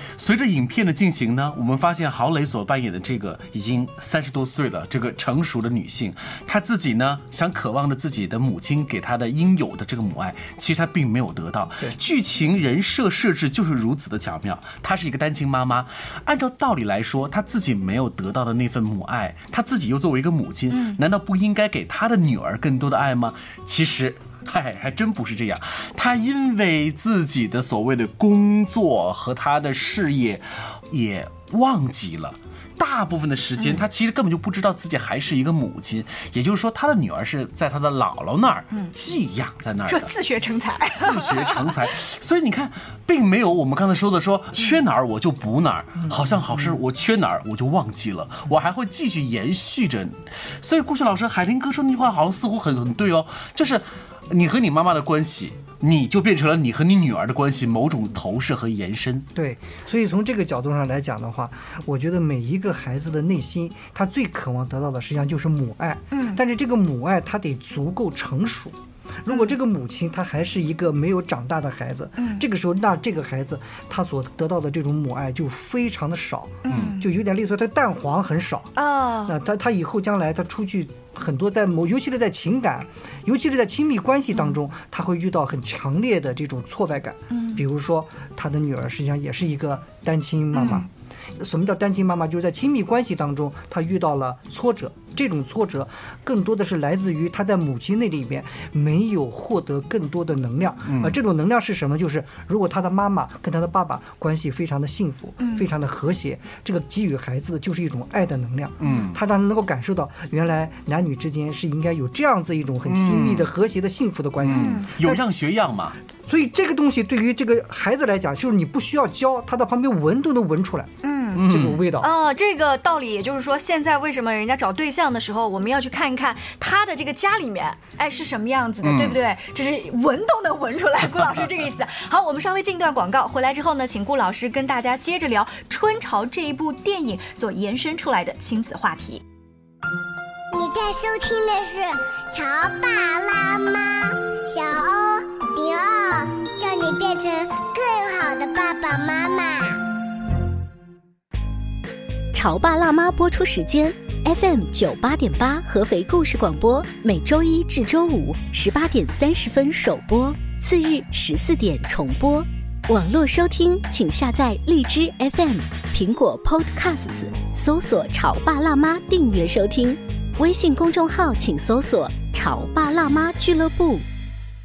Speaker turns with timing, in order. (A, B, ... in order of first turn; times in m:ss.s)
0:00.2-0:40.1 A
0:20.7-0:21.0 B
0:39.8-0:41.9 B
0:41.0-0:59.3 A
0:59.3-1:55.2 C
1:06.1-1:06.4 B
1:09.3-1:09.5 B
1:12.2-1:12.4 B
1:16.6-1:17.0 B
1:16.7-1:17.0 A
1:18.8-1:19.3 B
1:27.3-1:27.6 B
1:30.5-1:30.9 B
1:40.9-1:41.2 A
1:45.4-1:45.6 B
1:48.8-1:49.2 A
1:52.8-1:53.5 A
1:54.4-1:56.0 A
1:54.5-1:54.9 B
1:56.2-2:02.1 C
2:01.0-2:19.2 B
2:01.3-2:01.8 A
2:08.8-2:09.2 A
2:20.5-2:29.8 D
2:32.3-2:54.0 E